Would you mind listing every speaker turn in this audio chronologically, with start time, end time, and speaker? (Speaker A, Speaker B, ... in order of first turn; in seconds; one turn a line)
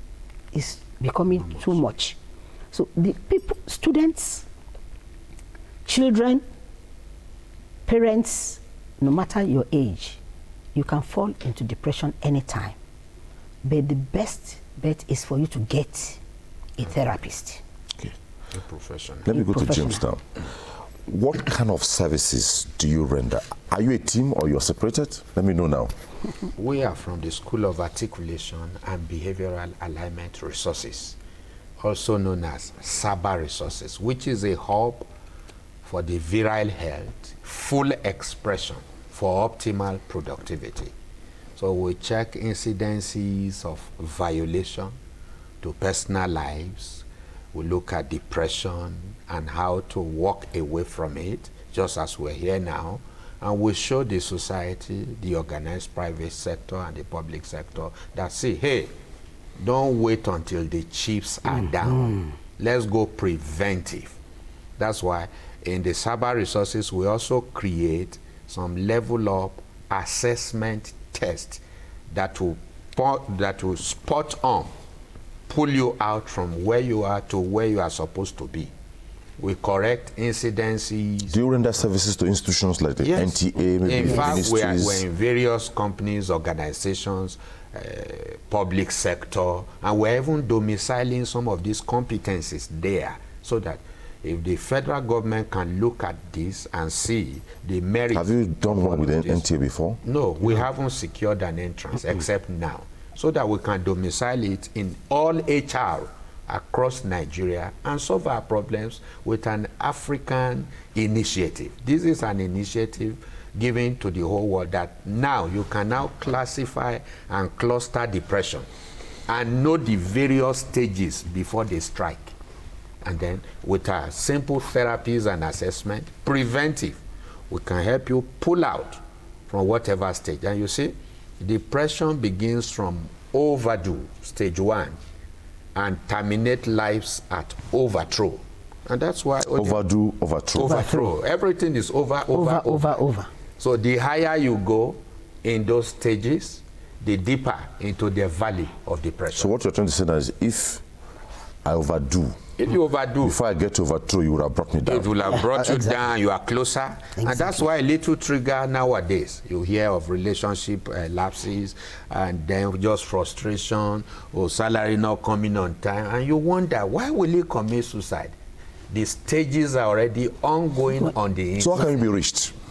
Speaker A: 0.5-2.2
Speaker A: 2.7-4.4
Speaker A: 5.8-6.4
Speaker A: 7.9-10.2
Speaker A: 10.7-12.8
Speaker A: 13.6-16.2
Speaker A: 16.8-17.6
Speaker B: 18.5-19.3
Speaker C: 19.2-20.5
Speaker A: 19.3-20.0
Speaker C: 21.0-25.9
Speaker B: 26.6-31.2
Speaker B: 31.8-35.1
Speaker B: 35.8-40.9
Speaker B: 41.6-44.9
Speaker B: 45.6-58.9
Speaker B: 59.6-64.2
Speaker B: 64.8-74.7
Speaker B: 75.5-78.7
Speaker B: 79.4-81.4
Speaker C: 81.3-85.0
Speaker B: 83.0-99.4
Speaker A: 84.0-84.4
Speaker C: 98.1-100.0
Speaker B: 100.0-118.7
Speaker B: 119.3-122.3
Speaker B: 123.0-135.0
Speaker B: 135.7-139.8
Speaker C: 139.5-140.9
Speaker B: 140.5-143.0
Speaker A: 140.6-141.1
Speaker A: 142.3-143.3
Speaker B: 143.6-149.5
Speaker C: 149.3-150.8
Speaker C: 151.6-152.4
Speaker B: 152.6-153.4
Speaker C: 153.2-155.3
Speaker B: 154.8-168.3
Speaker A: 157.2-157.6
Speaker B: 168.9-172.0
Speaker C: 171.6-172.5